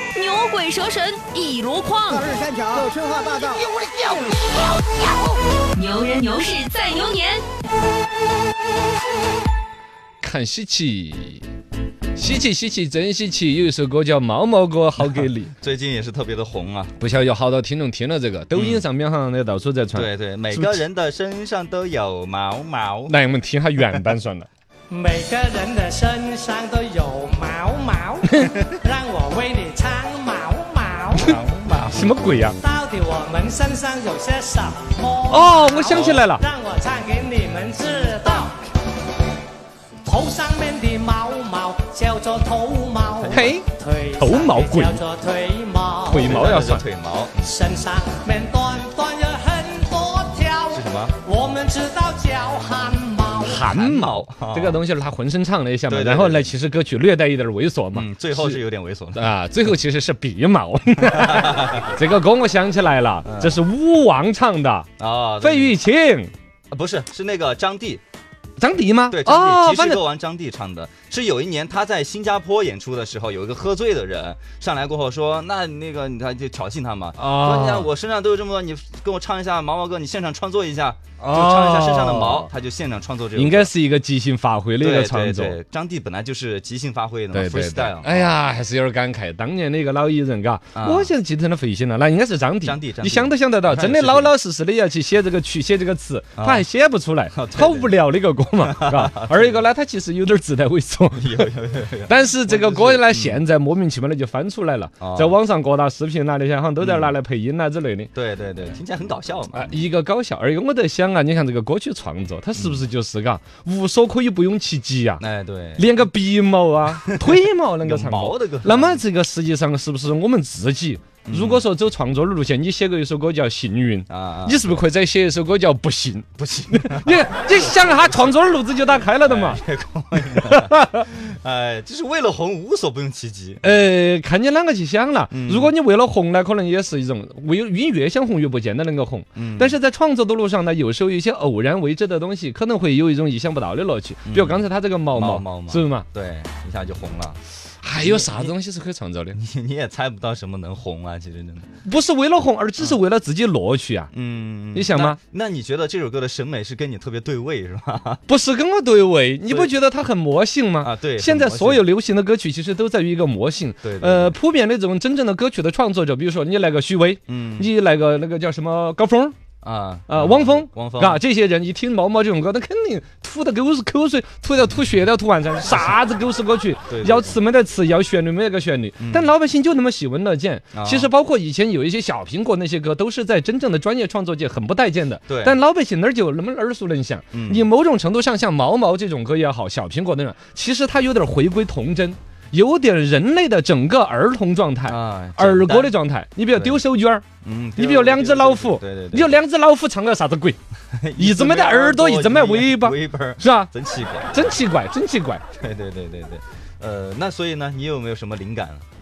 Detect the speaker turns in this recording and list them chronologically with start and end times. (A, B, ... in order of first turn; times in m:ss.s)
0:00.1-0:02.2 A
0:02.1-0:04.1 B
0:05.8-0:07.5 A
0:10.2-0:11.4 C
0:12.2-0:15.5 C
0:15.2-0:17.0 D
0:17.0-0:20.8 C
0:18.5-0:18.8 D
0:19.9-0:23.2 D
0:23.1-0:24.5 C
0:23.8-0:24.1 D
0:24.9-0:31.4 E
0:31.1-0:32.4 D
0:31.9-0:32.6 C
0:32.6-0:38.7 E
0:35.3-0:36.4 C
0:40.0-0:46.4 E
0:43.1-0:43.6 D
0:43.3-0:43.7 C
0:44.2-0:45.0 C
0:46.1-0:46.8 C
0:46.1-0:47.5 D
0:47.4-0:53.7 E
0:50.7-0:51.2 D
0:53.4-0:58.6 C
0:53.6-0:54.8 D
0:55.9-0:56.5 D
0:57.9-0:59.3 D
0:59.2-1:04.9 C
1:01.0-1:01.9 D
1:03.2-1:03.6 D
1:05.0-1:05.8 D
1:05.4-1:06.3 C
1:06.7-1:08.0 D
1:08.6-1:10.0 C
1:09.1-1:23.7 D
1:17.2-1:17.9 C
1:21.2-1:22.5 C
1:23.4-1:25.6 C
1:24.8-1:28.3 D
1:27.3-1:41.5 C
1:30.8-1:31.1 D
1:32.6-1:34.4 D
1:36.4-1:36.7 D
1:37.3-1:38.0 D
1:38.6-1:39.7 D
1:41.1-1:43.4 D
1:42.1-1:48.1 C
1:45.0-1:45.4 D
1:46.8-1:47.2 D
1:48.1-1:49.8 D
1:49.5-1:55.2 C
1:52.6-1:52.9 D
1:55.2-1:56.1 D
1:55.8-2:09.6 C
1:57.8-1:59.0 D
2:01.2-2:01.7 D
2:04.1-2:04.8 D
2:06.4-2:08.4 D
2:09.2-2:13.7 D
2:10.3-2:11.0 C
2:13.6-2:26.1 C
2:15.3-2:15.8 D
2:19.4-2:19.8 D
2:24.3-2:27.4 D
2:27.8-2:29.4 C
2:28.0-2:28.6 D
2:29.3-2:31.7 D
2:31.8-2:34.1 C
2:34.1-2:38.3 D
2:34.7-2:35.2 C
2:38.3-2:49.4 C
2:39.5-2:39.7 D
2:40.8-2:41.9 D
2:43.8-2:44.4 D
2:47.3-2:47.7 D
2:49.6-2:51.2 D
2:50.1-3:17.2 C
2:56.9-2:57.4 D
2:59.0-2:59.3 D
3:00.7-3:01.1 D
3:05.3-3:05.6 D
3:07.3-3:07.7 D
3:14.8-3:16.0 D
3:16.5-3:16.8 D
3:17.4-3:19.4 D
3:17.8-3:20.6 C
3:20.9-3:24.6 D
3:21.2-3:23.7 C
3:24.3-3:25.4 C
3:25.6-3:28.8 D